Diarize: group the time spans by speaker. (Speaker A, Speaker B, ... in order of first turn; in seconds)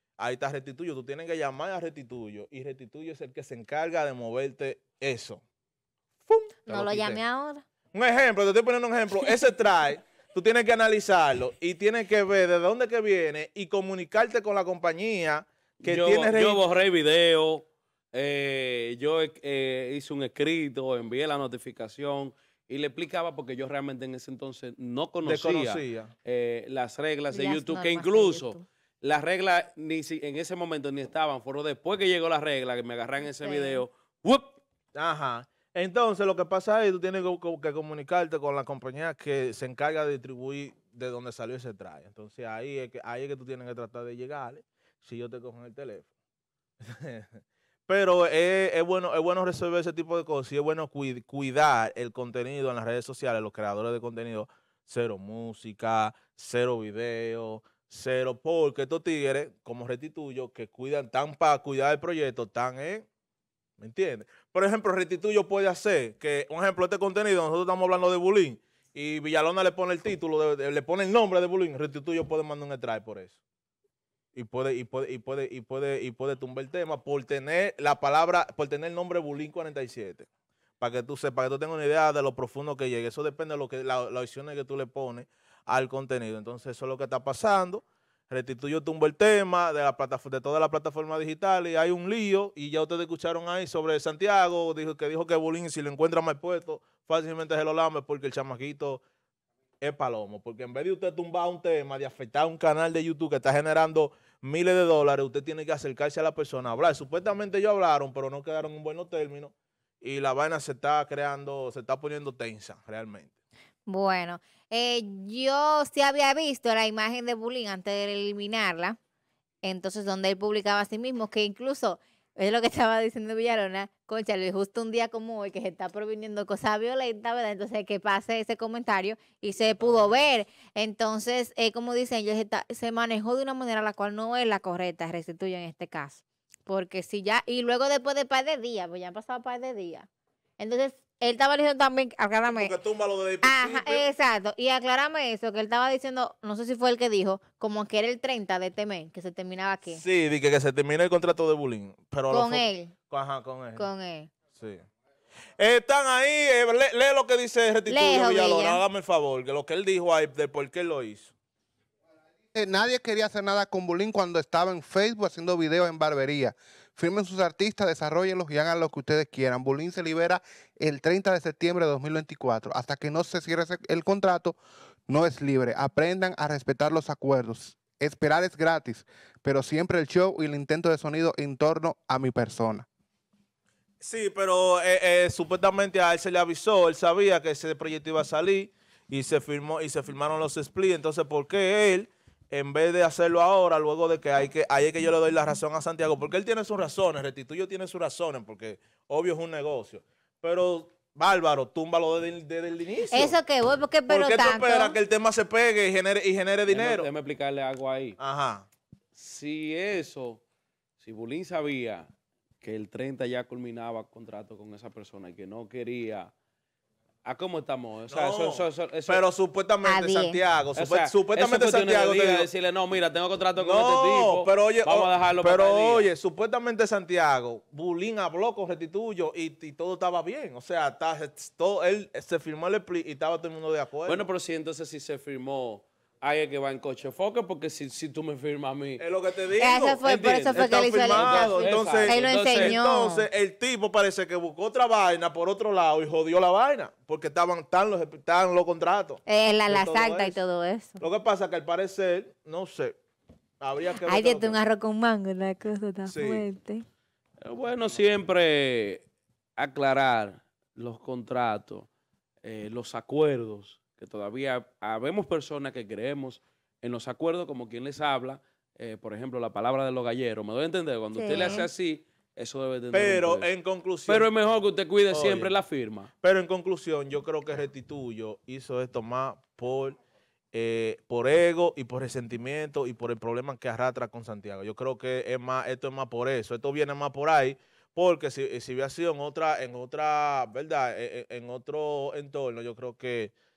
Speaker A: 0.2-5.4, 6.3-7.2, 7.9-16.6, 25.2-26.1, 34.9-46.1, 46.8-63.0, 63.8-73.4, 74.3-80.3, 80.8-99.0, 99.8-113.3, 129.8-130.2, 142.5-144.1, 149.9-153.8, 154.5-154.8, 155.6-161.3, 184.0-203.4, 204.1-207.1, 208.2-208.7, 218.1-222.5, 223.6-234.2, 239.0-250.4, 251.0-252.9, 253.6-254.6, 256.1-256.4, 272.9-274.3, 275.1-275.6, 276.2-280.0, 280.5-293.3
Speaker B: 6.7-7.6, 27.3-28.6, 33.4-33.8, 113.9-119.0, 119.6-140.1, 140.6-142.7, 143.4-150.0, 152.3-152.9, 153.8-154.3, 157.9-158.8, 203.1-205.0, 219.8-220.4, 239.6-243.3, 249.2-251.0, 253.9-256.8, 271.1-271.7
Speaker C: 15.8-34.5, 206.7-208.2, 209.1-210.4, 211.0-212.1, 212.6-216.3, 217.2-219.2, 220.8-226.1, 234.1-239.0, 240.3-242.8, 257.4-259.0, 259.6-261.9, 262.4-273.5, 274.1-276.1
Speaker D: 162.5-182.8